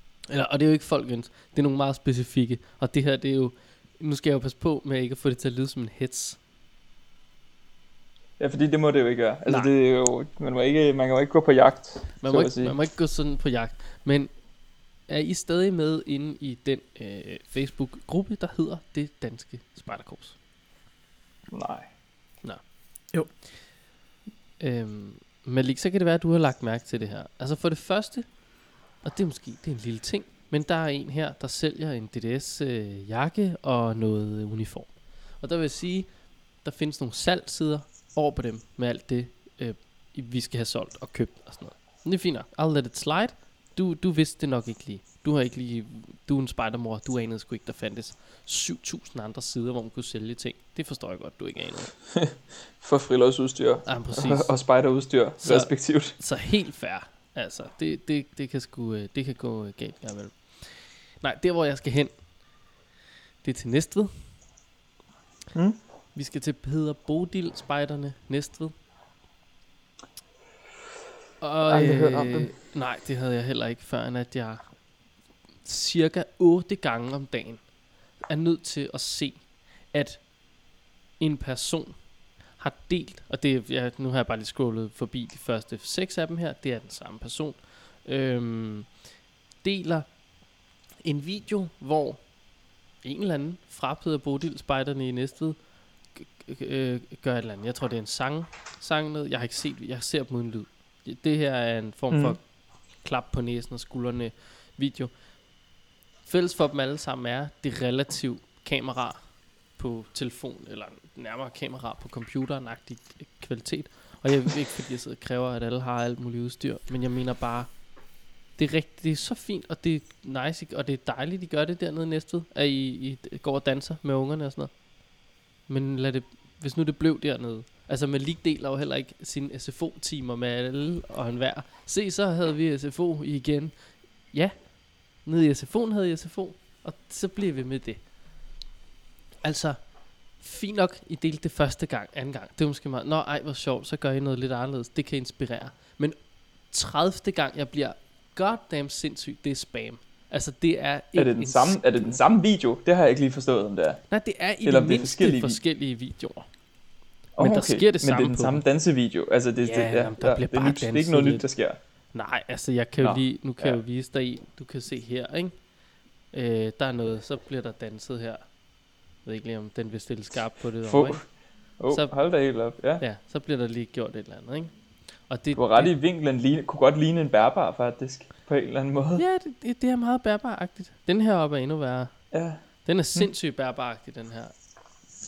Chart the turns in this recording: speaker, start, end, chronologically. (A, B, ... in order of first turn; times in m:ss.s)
0:00.3-0:06.4 A
0:08.4-0:12.8 B
0:09.4-0:09.7 A
0:12.2-0:20.4 A
0:21.5-0:21.9 B
0:22.4-0:22.7 A
0:24.6-0:51.9 A
0:52.2-0:56.1 B
0:53.8-0:54.7 A
0:55.4-1:02.3 A
1:03.4-1:04.3 A
1:05.5-1:05.8 B
1:06.1-1:08.7 A
1:11.4-1:14.8 A
1:11.7-1:12.5 B
1:15.6-1:20.3 A
1:21.2-1:29.1 A
1:29.6-1:30.2 A
1:31.0-1:32.4 A
1:33.0-1:45.2 A
1:42.1-1:42.4 B
1:46.2-1:57.9 A
1:58.5-2:04.9 A
2:05.6-2:18.0 A
2:19.4-2:32.3 A
2:31.1-2:35.6 B
2:34.1-2:36.5 A
2:37.3-2:41.8 B
2:37.4-2:38.6 A
2:39.6-2:41.5 A
2:42.1-2:45.7 A
2:43.0-2:43.8 B
2:46.3-2:48.6 A
2:49.1-2:55.9 A
2:50.8-2:53.0 B
2:55.5-2:59.2 B
2:59.2-3:04.5 A
3:02.3-3:03.3 B